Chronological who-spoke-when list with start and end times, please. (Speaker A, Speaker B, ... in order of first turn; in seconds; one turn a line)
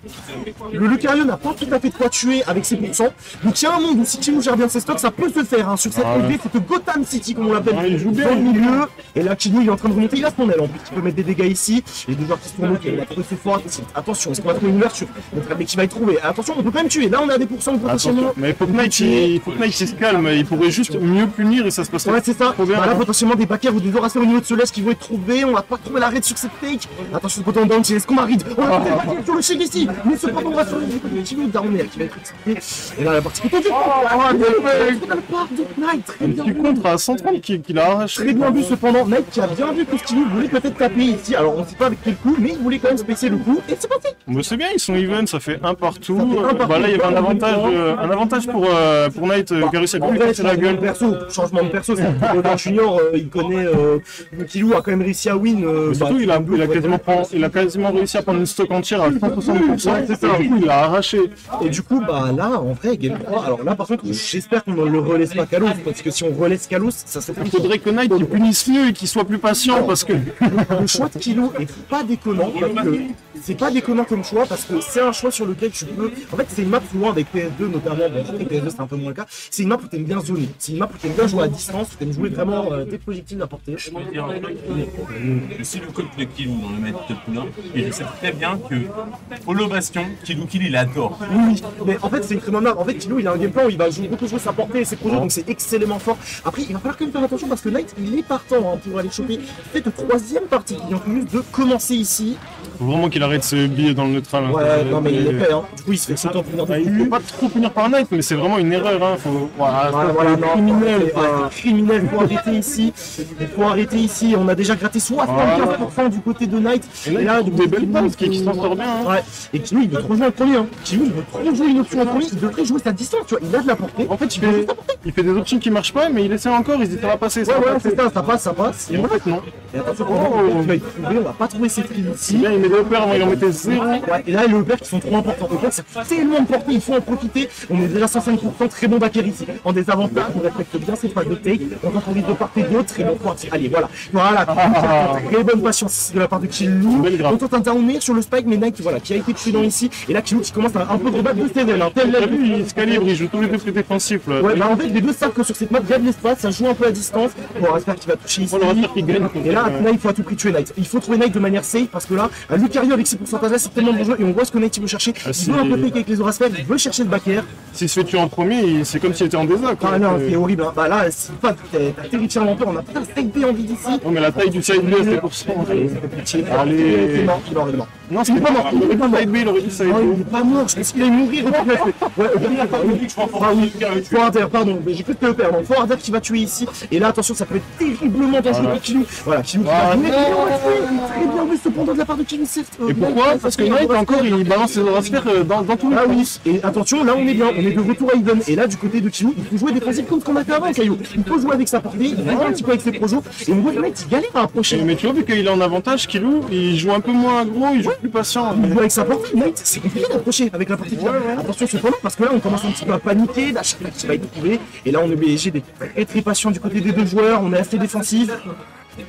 Speaker A: 0.6-19.4
Speaker B: 5.9-6.4
Speaker B: 7.7-8.8
Speaker B: 17.8-23.1
Speaker A: 22.0-36.8
Speaker B: 28.6-29.2
Speaker B: 33.7-35.0
Speaker B: 36.2-38.7
Speaker A: 38.1-44.2
Speaker B: 44.3-50.9
Speaker A: 46.1-47.8
Speaker A: 49.6-57.0
Speaker B: 52.0-52.6
Speaker B: 55.9-61.4
Speaker A: 59.1-60.5
Speaker A: 61.5-68.4
Speaker B: 67.3-71.1
Speaker A: 69.7-83.9
Speaker C: 83.9-91.2
Speaker A: 91.2-102.4
Speaker B: 95.0-95.3
Speaker B: 102.8-105.5
Speaker A: 104.5-107.2
Speaker B: 106.1-111.5
Speaker A: 109.9-125.0
Speaker B: 115.2-115.9
Speaker B: 117.0-119.1
Speaker B: 124.0-128.1
Speaker A: 127.4-129.1
Speaker B: 128.9-129.5
Speaker A: 129.7-132.5
Speaker B: 130.1-130.8
Speaker B: 132.3-134.1
Speaker A: 133.1-152.4
Speaker B: 144.5-145.3
Speaker B: 146.9-147.4
Speaker B: 152.0-154.6
Speaker A: 154.4-167.5
Speaker B: 158.5-159.9
Speaker B: 165.2-165.9
Speaker B: 167.7-170.4
Speaker A: 169.8-194.3
Speaker B: 174.0-177.4
Speaker B: 178.1-180.2
Speaker B: 181.4-181.9
Speaker C: 182.4-184.3
Speaker B: 188.5-188.8
Speaker B: 189.6-191.4
Speaker B: 192.8-196.3
Speaker A: 195.9-204.9
Speaker B: 202.2-202.6
Speaker B: 204.7-209.0
Speaker A: 208.5-218.4
Speaker B: 210.8-211.5